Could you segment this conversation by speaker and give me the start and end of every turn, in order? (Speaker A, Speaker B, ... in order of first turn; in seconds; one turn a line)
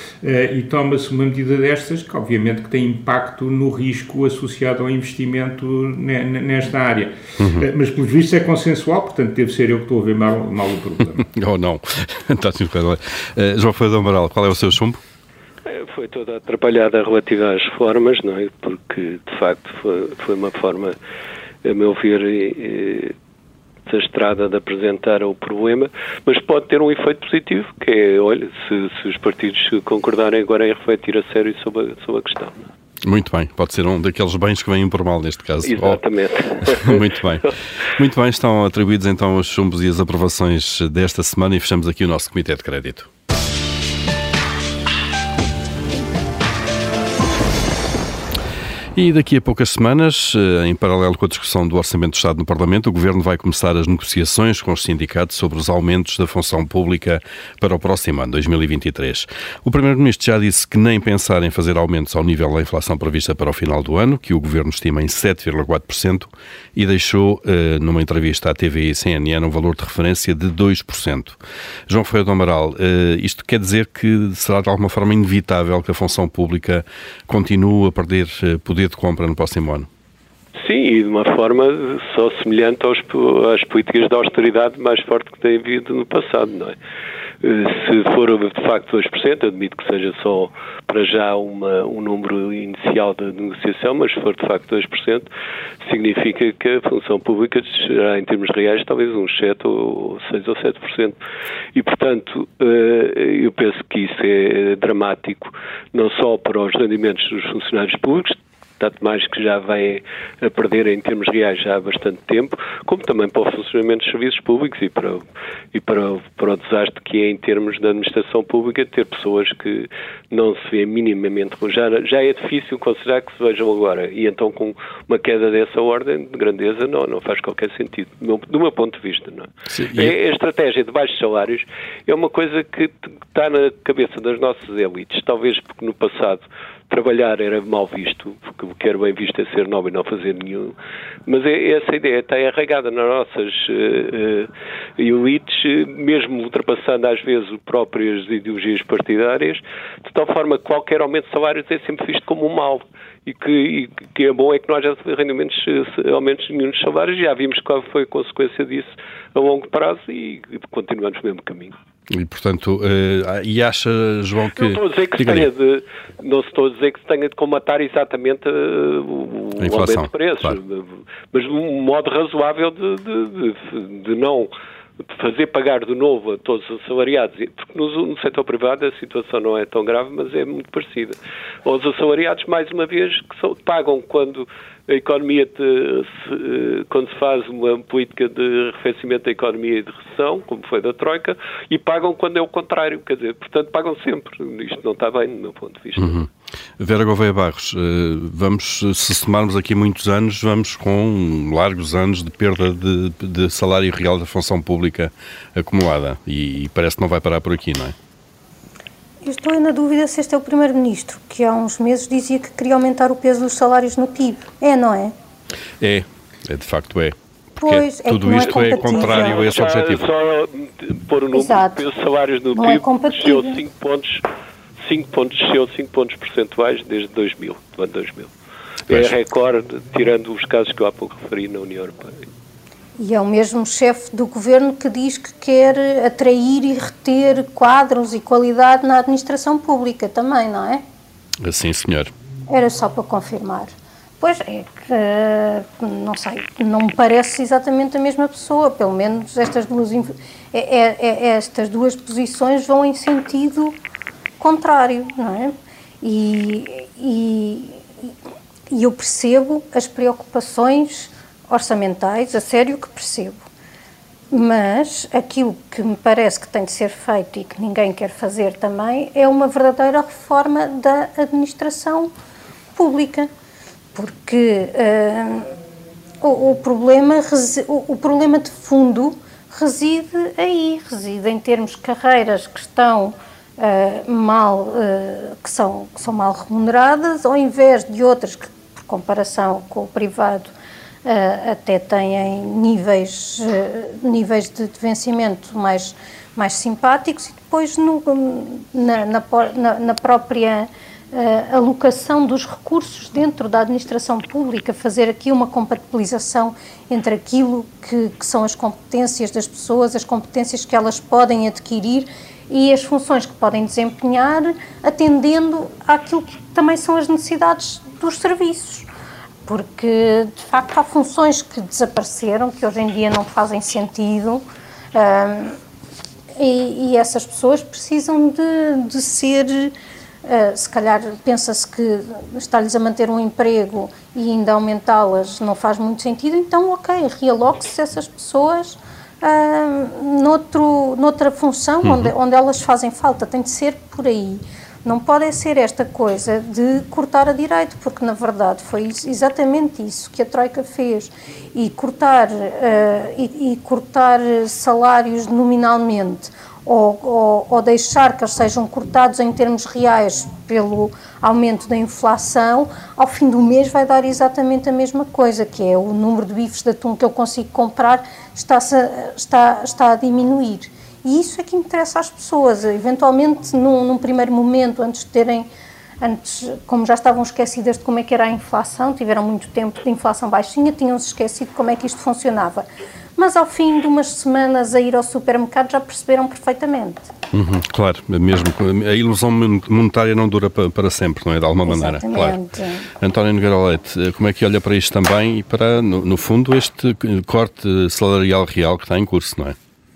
Speaker A: 0.2-11.3
Speaker B: 7.4-7.7
Speaker B: 11.3-15.0
Speaker C: 15.7-20.9
Speaker C: 21.6-23.1
Speaker C: 23.9-32.7
Speaker B: 33.0-36.0
Speaker C: 35.6-37.5
Speaker B: 36.6-43.1
Speaker B: 48.9-79.9
Speaker C: 80.6-86.8
Speaker C: 87.4-95.3
Speaker C: 95.8-101.2
Speaker C: 101.7-161.7
Speaker B: 129.7-130.1
Speaker B: 162.1-165.5
Speaker C: 164.6-196.2
Speaker B: 169.6-170.6
Speaker B: 196.0-207.9
Speaker D: 209.2-215.1
Speaker B: 215.8-220.1
Speaker D: 217.6-219.6
Speaker C: 218.8-224.2
Speaker D: 221.3-221.8
Speaker D: 222.5-223.6
Speaker C: 224.8-228.3
Speaker B: 228.9-229.1
Speaker C: 228.9-232.2
Speaker D: 233.0-240.8
Speaker B: 241.4-242.1
Speaker D: 242.5-253.8
Speaker D: 254.4-258.1
Speaker D: 258.7-263.4
Speaker D: 264.3-272.1
Speaker D: 272.7-273.3
Speaker D: 273.9-275.5
Speaker D: 276.2-290.5
Speaker D: 291.0-318.9
Speaker D: 319.4-325.6
Speaker D: 326.4-329.7
Speaker D: 330.2-375.5
Speaker D: 376.0-382.6
Speaker D: 383.2-387.1
Speaker B: 387.3-392.4
Speaker D: 391.6-392.9
Speaker B: 393.0-399.6